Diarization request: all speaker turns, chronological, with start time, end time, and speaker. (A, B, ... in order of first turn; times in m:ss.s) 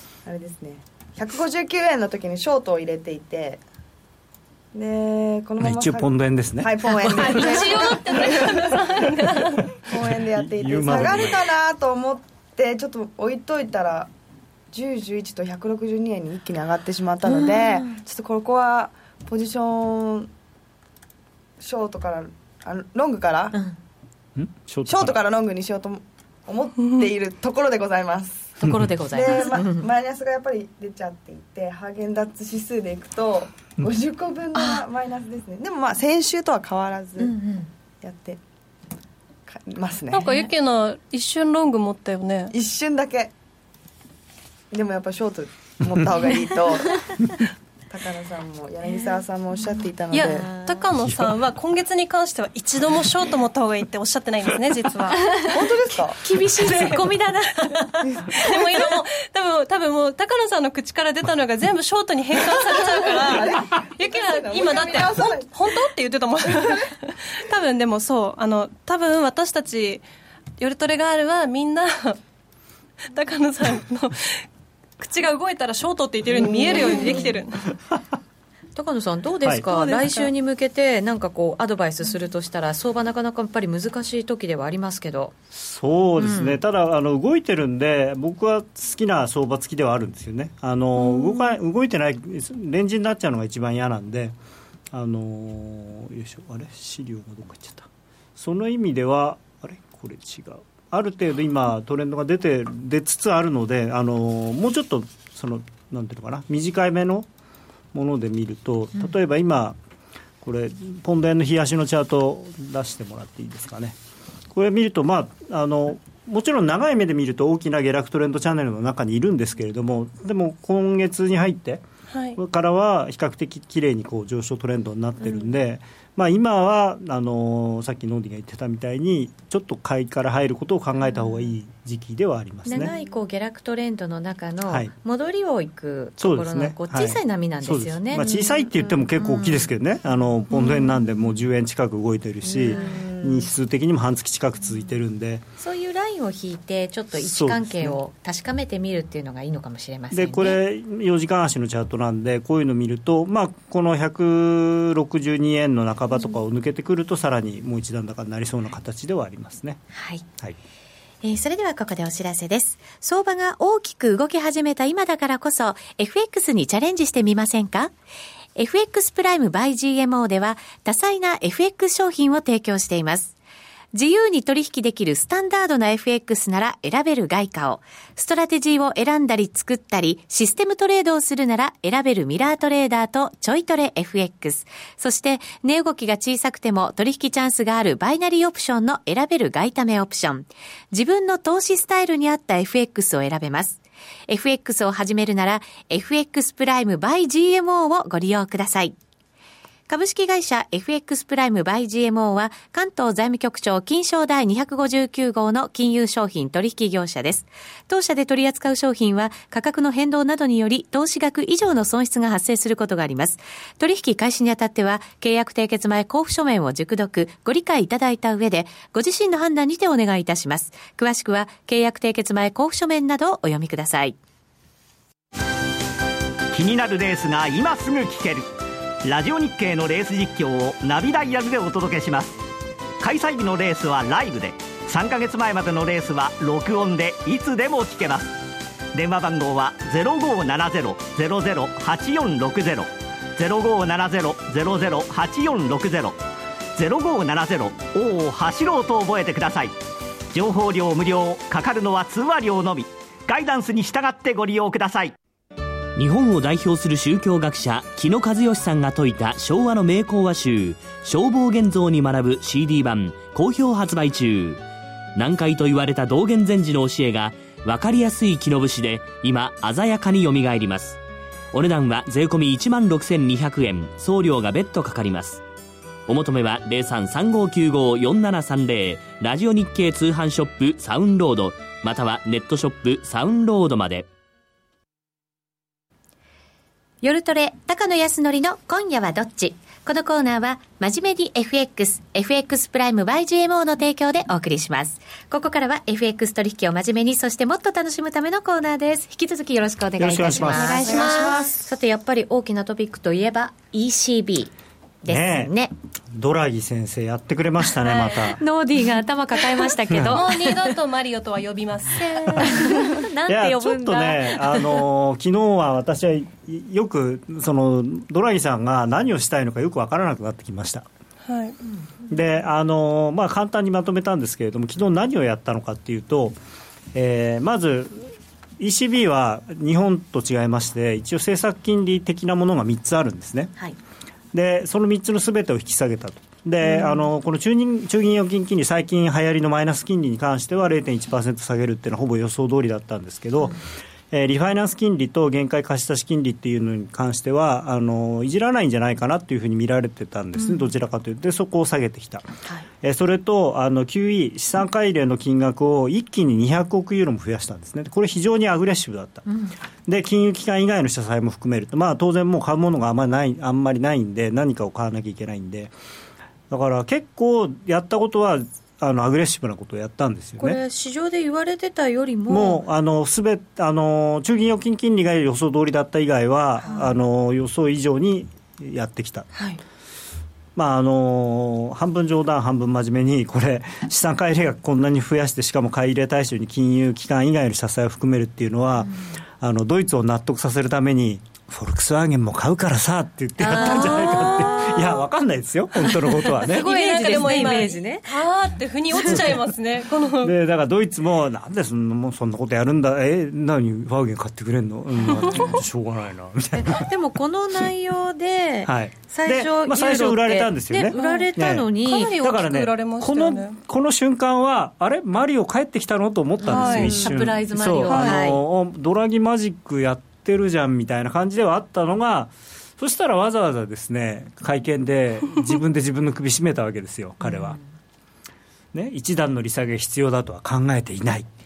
0:00.2-0:03.6 A
0:04.7-0:08.8 A
0:05.6-0:07.8 B
0:07.0-0:09.5 C
0:09.9-0:14.1 A
0:10.4-0:11.5 B
0:14.7-0:20.3 A
0:21.6-0:23.6 A
0:24.4-0:25.2 B
0:24.9-0:28.6 A
0:28.6-0:29.9 D
0:29.1-0:37.4 A
0:34.6-0:34.8 D
0:37.2-0:37.7 D
0:38.0-0:38.4 A
0:39.5-0:40.3 A
0:40.1-0:42.5 C
0:40.2-0:40.5 D
0:42.5-0:43.3 A
0:44.7-0:47.2 A
0:47.9-0:50.5 A
0:50.1-0:55.5 C
0:51.0-0:51.4 B
0:55.4-0:56.2 A
0:56.2-0:58.6 D
0:56.6-0:57.1 C
0:58.1-0:58.6 A
0:58.3-1:10.0 C
1:03.0-1:05.8 A
1:10.6-1:12.2 C
1:13.1-1:14.4 C
1:15.0-1:17.6 C
1:16.4-1:17.2 A
1:16.4-1:17.3 D
1:18.8-1:25.4 D
1:19.4-1:19.8 B
1:19.7-1:20.3 C
1:25.5-1:34.4 B
1:26.2-1:26.6 D
1:34.9-1:47.3 B
1:47.9-1:49.8 B
1:50.4-1:54.0 B
1:54.5-2:12.9 B
2:02.1-2:02.4 C
2:12.7-2:18.6 D
2:16.2-2:25.4 B
2:19.2-2:19.7 D
2:22.6-2:23.0 D
2:25.6-2:30.6 D
2:27.2-2:28.0 B
2:30.1-2:39.8 B
2:39.9-2:40.3 D
2:41.2-2:47.9 D
2:48.6-2:53.4 D
2:53.9-3:19.0 D
3:19.9-3:44.2 D
3:46.5-3:48.5 E
3:49.0-3:52.4 E
3:53.0-3:58.4 E
3:58.9-4:06.2 E
4:06.8-4:09.8 E
4:10.3-4:15.2 E
4:16.0-4:24.6 F
4:25.2-4:31.0 F
4:31.5-4:35.4 F
4:36.1-4:44.1 F
4:47.0-5:04.5 D
5:00.0-5:01.3 B
5:00.4-5:01.6 C
5:05.0-5:05.7 D
5:05.1-5:05.5 B
5:06.1-5:08.4 B
5:08.4-5:10.7 D
5:09.9-5:10.3 B
5:10.1-5:12.7 C
5:11.9-5:14.8 D
5:12.4-5:12.7 B
5:13.3-5:20.9 B
5:21.2-5:21.6 C
5:22.1-5:26.4 B
5:26.9-5:33.5 B
5:34.3-5:52.3 B
5:36.6-5:37.0 D
5:50.4-5:50.7 D
5:52.8-5:59.3 B
5:59.3-5:59.5 D
5:59.9-6:05.8 B
6:06.5-6:10.6 B
6:10.4-6:12.6 D
6:12.3-6:19.3 B
6:16.6-6:17.0 D
6:19.3-6:19.6 D
6:20.6-6:37.6 B
6:33.4-6:34.7 D
6:33.5-6:34.6 C
6:36.2-6:38.3 D
6:36.4-6:40.4 C
6:38.9-6:39.2 D
6:39.0-6:39.5 B
6:40.2-6:46.9 B
6:44.9-6:45.6 D
6:45.1-6:45.6 C
6:46.5-6:52.1 D
6:48.6-7:07.6 B
6:51.0-6:53.6 C
6:56.4-6:58.4 D
6:56.5-6:57.2 C
6:57.9-6:58.2 C
7:07.2-7:07.6 D
7:08.7-7:11.3 B